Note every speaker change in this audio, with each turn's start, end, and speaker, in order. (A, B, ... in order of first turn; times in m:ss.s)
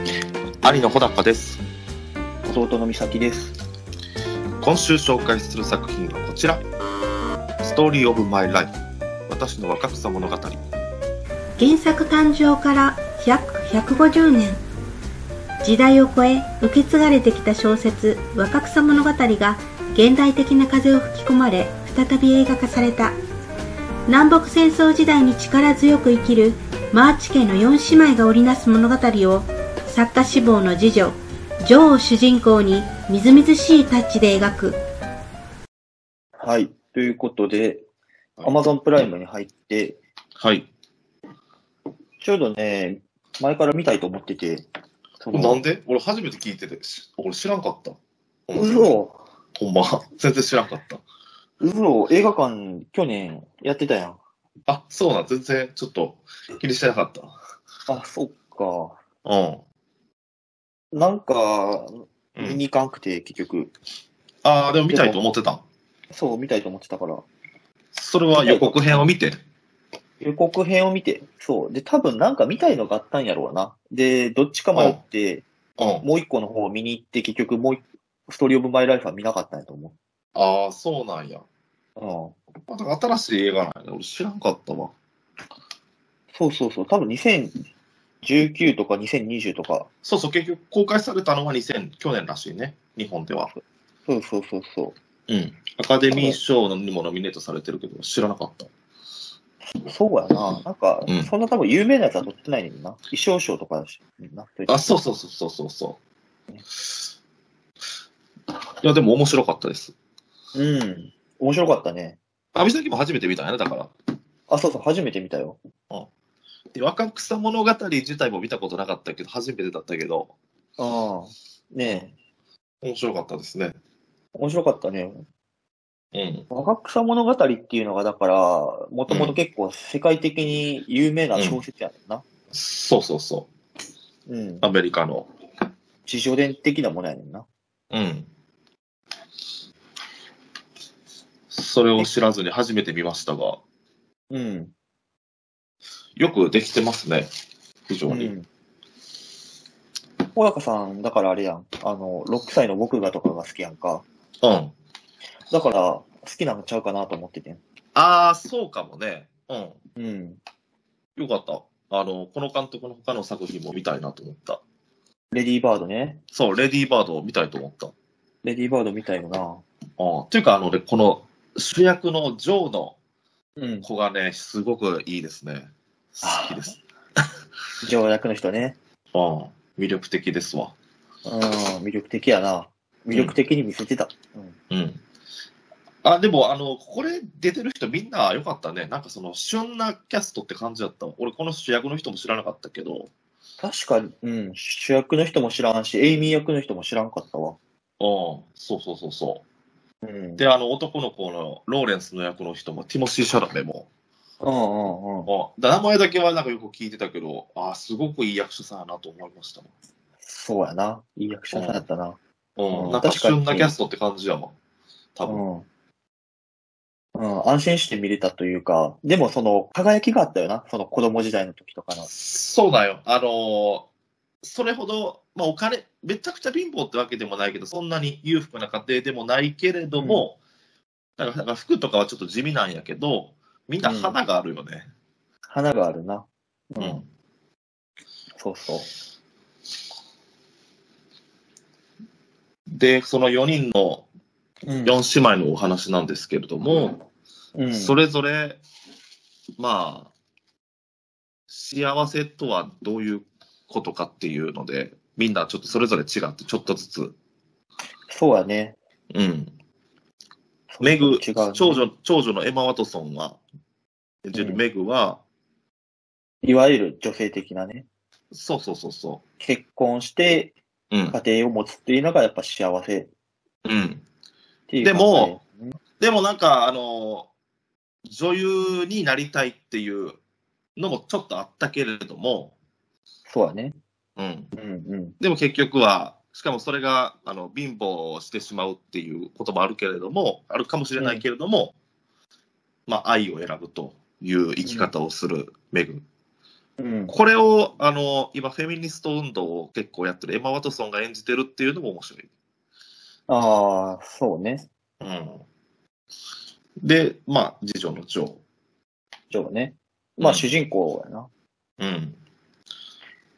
0:00.6-0:01.6 A
0:02.4-0:03.6 B
0:04.6-0:06.6 A
0:07.6-0:08.7 A
0:09.3-0:10.6 A
0:11.6-0:14.6 C
0:15.6-0:23.2 C
0:24.1-0:34.8 C
0:36.4-0:37.8 B
0:38.4-0:40.0 B
0:40.4-0:40.7 A
0:42.2-0:44.6 B
0:45.2-0:45.6 B
0:45.3-0:49.0 A
0:48.5-0:49.2 B
0:49.6-0:51.0 A
0:51.6-0:54.2 B
0:54.7-0:57.3 A
0:57.9-0:59.0 B
0:59.2-0:59.6 A
1:00.9-1:03.7 B
1:02.4-1:02.6 A
1:04.4-1:05.6 A
1:04.9-1:05.2 B
1:06.1-1:07.2 B
1:07.9-1:09.4 A
1:08.3-1:09.1 B
1:10.2-1:15.4 B
1:14.7-1:15.0 A
1:15.8-1:16.0 A
1:16.0-1:20.0 B
1:20.3-1:21.4 A
1:22.0-1:22.4 B
1:22.7-1:24.9 A
1:26.3-1:27.7 B
1:28.2-1:29.9 B
1:30.0-1:33.5 A
1:33.5-1:35.0 B
1:35.3-1:38.7 A
1:36.1-1:36.4 B
1:39.7-1:45.0 B
1:41.0-1:41.3 A
1:44.7-1:46.0 A
1:48.8-1:49.9 A
1:50.5-1:52.2 B
1:52.5-1:53.9 A
1:54.5-1:55.6 B
1:56.7-2:00.3 A
2:00.8-2:02.1 B
2:01.8-2:02.1 A
2:02.8-2:03.8 A
2:04.3-2:05.2 B
2:06.1-2:06.5 A
2:06.5-2:12.2 B
2:09.1-2:09.4 A
2:11.3-2:11.6 A
2:12.5-2:13.5 A
2:14.3-2:14.7 B
2:14.6-2:15.3 A
2:16.0-2:17.5 B
2:17.9-2:18.3 A
2:21.5-2:23.6 A
2:24.3-2:24.7 B
2:26.2-2:27.3 A
2:27.9-2:28.3 A
2:28.1-2:28.5 B
2:30.3-2:34.0 B
2:34.4-2:34.7 A
2:35.5-2:37.6 B
2:37.9-2:39.8 A
2:40.0-2:40.4 B
2:41.2-2:44.6 A
2:45.3-2:46.2 B
2:46.3-2:47.9 A
2:48.4-2:49.6 B
2:50.0-2:53.0 A
2:53.6-2:53.9 B
2:53.8-2:56.8 A
2:56.2-2:56.7 B
2:57.8-2:58.8 B
2:59.1-3:00.7 A
3:01.2-3:04.6 B
3:03.1-3:03.4 A
3:04.7-3:05.0 A
3:06.0-3:13.1 A
3:13.6-3:17.6 B
3:18.0-3:19.4 A
3:20.0-3:20.4 B
3:20.4-3:23.9 A
3:24.4-3:25.3 B
3:25.2-3:29.7 A
3:30.2-3:32.2 B
3:31.5-3:31.8 A
3:32.6-3:34.6 A
3:32.7-3:33.7 B
3:35.1-3:35.4 A
3:35.2-3:35.7 B
3:37.1-3:42.1 B
3:42.1-3:43.9 A
3:44.4-3:50.4 A
3:50.0-3:50.2 B
3:51.2-3:54.9 A
3:53.8-3:54.2 B
3:55.5-3:57.0 B
3:56.8-3:57.1 A
3:58.3-3:58.9 B
4:02.7-4:04.1 A
4:04.6-4:05.0 B
4:04.8-4:07.0 A
4:07.5-4:08.0 B
4:07.7-4:08.6 A
4:09.6-4:10.1 A
4:11.5-4:17.2 A
4:18.1-4:18.8 B
4:19.1-4:19.5 A
4:20.7-4:21.9 B
4:20.8-4:23.4 A
4:24.2-4:25.2 A
4:24.3-4:24.6 B
4:26.4-4:27.8 B
4:28.3-4:29.2 A
4:29.4-4:30.6 B
4:30.9-4:31.2 A
4:31.1-4:33.1 B
4:33.6-4:34.0 A
4:34.7-4:35.8 B
4:34.8-4:35.4 A
4:36.0-4:37.3 A
4:38.0-4:40.2 A
4:40.8-4:42.6 A
4:43.3-4:43.8 B
4:44.2-4:44.5 A
4:44.5-4:45.2 B
4:45.2-4:51.8 A
4:51.0-4:51.2 B
4:52.9-4:56.0 A
4:54.6-4:54.9 B
4:56.8-4:57.1 B
4:57.1-5:02.3 A
5:03.3-5:04.7 B
5:05.0-5:05.4 A
5:06.8-5:08.4 A
5:09.3-5:11.3 B
5:10.2-5:10.5 A
5:11.8-5:12.2 A